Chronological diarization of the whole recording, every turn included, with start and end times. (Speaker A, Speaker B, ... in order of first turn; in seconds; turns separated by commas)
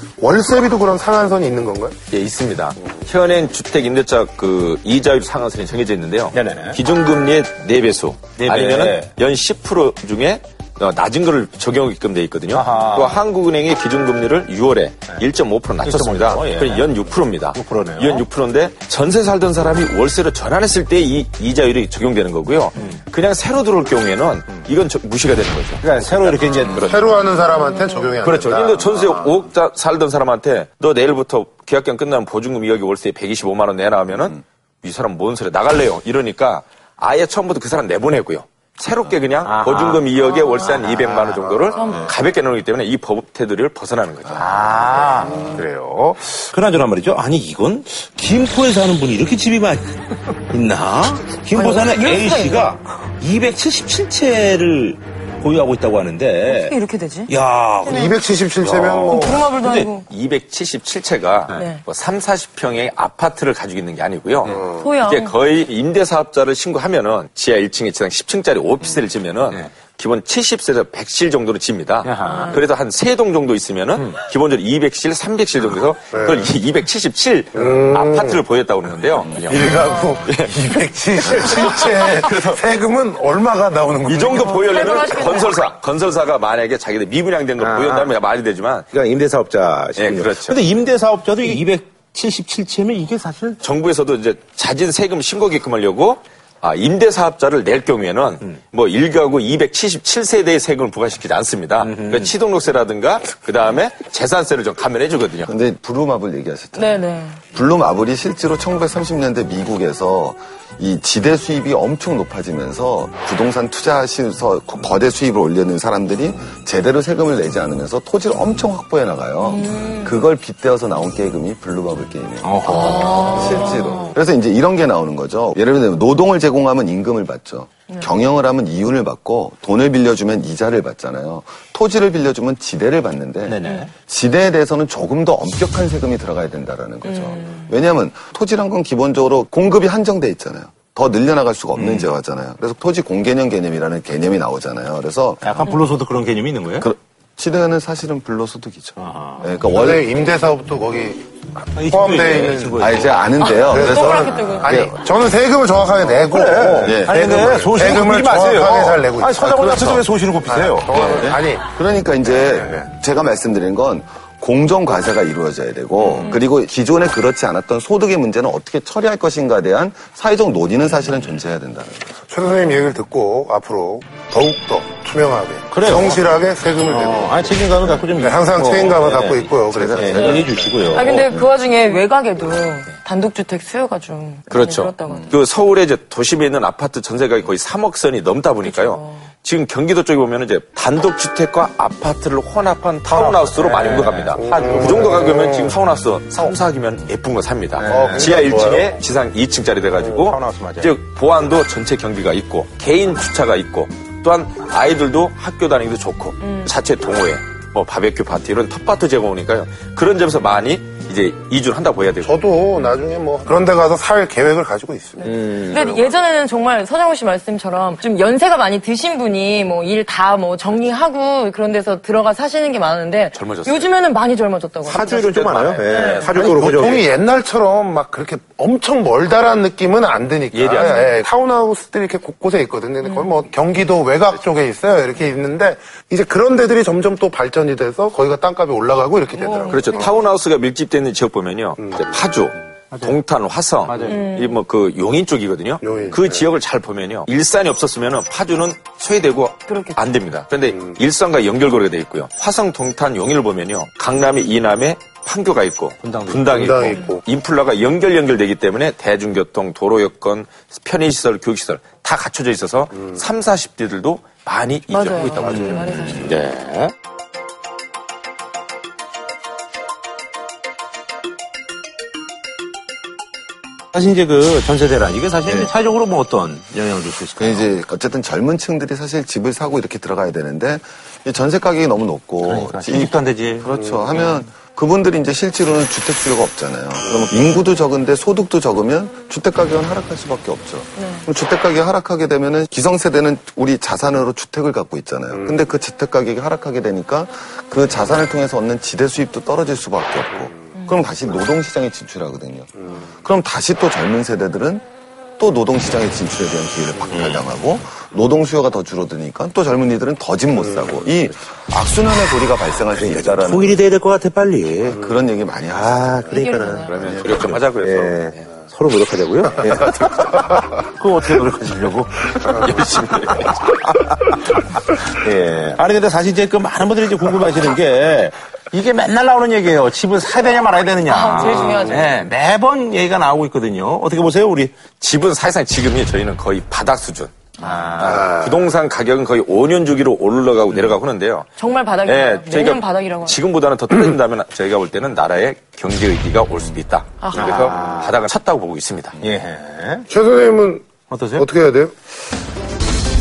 Speaker A: 0.2-2.0, Speaker B: 2.1-27.5, Speaker C: 6.3-6.8, Speaker C: 8.4-9.1, Speaker C: 12.5-13.2, Speaker C: 15.8-17.0, Speaker C: 17.5-18.2, Speaker C: 25.8-27.0, Speaker A: 26.8-29.4, Speaker D: 27.6-28.1, Speaker B: 28.2-44.5, Speaker C: 39.4-41.4, Speaker D: 41.7-42.1, Speaker C: 44.3-56.8, Speaker E: 45.2-45.6, Speaker D: 51.5-52.8, Speaker D: 56.4-57.3, Speaker C: 57.3-58.1, Speaker D: 57.9-58.2, Speaker A: 57.9-59.5, Speaker C: 58.7-59.4, Speaker D: 59.1-60.1, Speaker B: 59.6-80.5, Speaker D: 61.5-61.8, Speaker A: 64.5-64.9, Speaker D: 64.8-65.3, Speaker C: 72.0-72.6, Speaker D: 72.3-72.6, Speaker A: 76.1-76.5, Speaker A: 77.5-78.4, Speaker A: 79.4-85.2, Speaker B: 81.2-82.6, Speaker B: 84.0-88.9, Speaker D: 84.4-85.7, Speaker C: 87.6-88.2, Speaker C: 88.9-93.6, Speaker B: 90.0-90.6, Speaker B: 93.6-105.5, Speaker C: 101.8-102.3, Speaker E: 105.5-145.7, Speaker D: 106.8-107.4, Speaker D: 119.4-120.2, Speaker C: 122.4-123.4, Speaker D: 122.6-124.1, Speaker C: 133.5-133.9, Speaker D: 137.0-137.7, Speaker C: 141.7-142.1, Speaker C: 145.4-146.9, Speaker E: 146.8-150.1, Speaker C: 149.0-149.5, Speaker A: 149.7-152.9, Speaker C: 151.8-153.2, Speaker E: 152.8-154.9, Speaker D: 153.4-154.9, Speaker A: 153.6-161.7, Speaker C: 156.0-161.3, Speaker E: 156.8-157.4, Speaker E: 160.9-172.0, Speaker C: 162.3-162.9, Speaker A: 172.3-180.5, Speaker C: 175.7-176.2, Speaker C: 176.9-181.3, Speaker E: 179.7-180.6, Speaker D: 180.8-185.3, Speaker E: 181.2-181.5, Speaker B: 184.5-212.5, Speaker D: 188.6-189.2, Speaker C: 193.1-195.2, Speaker A: 194.4-195.8, Speaker C: 197.8-198.5, Speaker A: 197.9-199.0, Speaker C: 200.1-201.0, Speaker D: 206.4-206.7, Speaker A: 212.2-215.4, Speaker D: 215.2-226.4, Speaker C: 215.2-215.9, Speaker B: 215.7-216.0, Speaker B: 223.3-223.9, Speaker C: 224.9-227.1, Speaker B: 225.8-226.3, Speaker A: 226.2-240.1, Speaker B: 230.5-231.1, Speaker D: 233.0-233.3, Speaker D: 239.3-240.2, Speaker B: 239.7-266.0, Speaker C: 242.9-243.2, Speaker C: 243.8-244.2, Speaker D: 244.0-244.6, Speaker A: 245.8-246.5, Speaker D: 249.7-250.0, Speaker C: 256.0-256.7, Speaker A: 256.5-257.2, Speaker D: 264.9-266.4, Speaker A: 265.3-265.8, Speaker C: 265.4-266.9, Speaker C: 273.9-277.7, Speaker E: 277.4-304.8, Speaker C: 282.4-283.7, Speaker D: 291.0-291.3, Speaker D: 300.8-301.1, Speaker E: 305.4-313.8, Speaker C: 307.1-307.5, Speaker C: 312.9-315.0, Speaker E: 314.9-316.2, Speaker C: 315.7-324.4, Speaker D: 316.3-317.1, Speaker B: 316.9-318.4, Speaker E: 317.0-317.3, Speaker B: 322.9-323.3, Speaker C: 324.9-334.7, Speaker D: 331.1-332.2, Speaker B: 335.0-337.3, Speaker D: 337.6-338.1, Speaker C: 337.6-338.4, Speaker B: 338.0-341.5, Speaker D: 341.6-343.4, Speaker B: 342.1-349.2, Speaker D: 347.2-347.6, Speaker C: 347.3-348.2, Speaker C: 349.2-350.1, Speaker A: 350.1-351.9, Speaker C: 351.1-351.5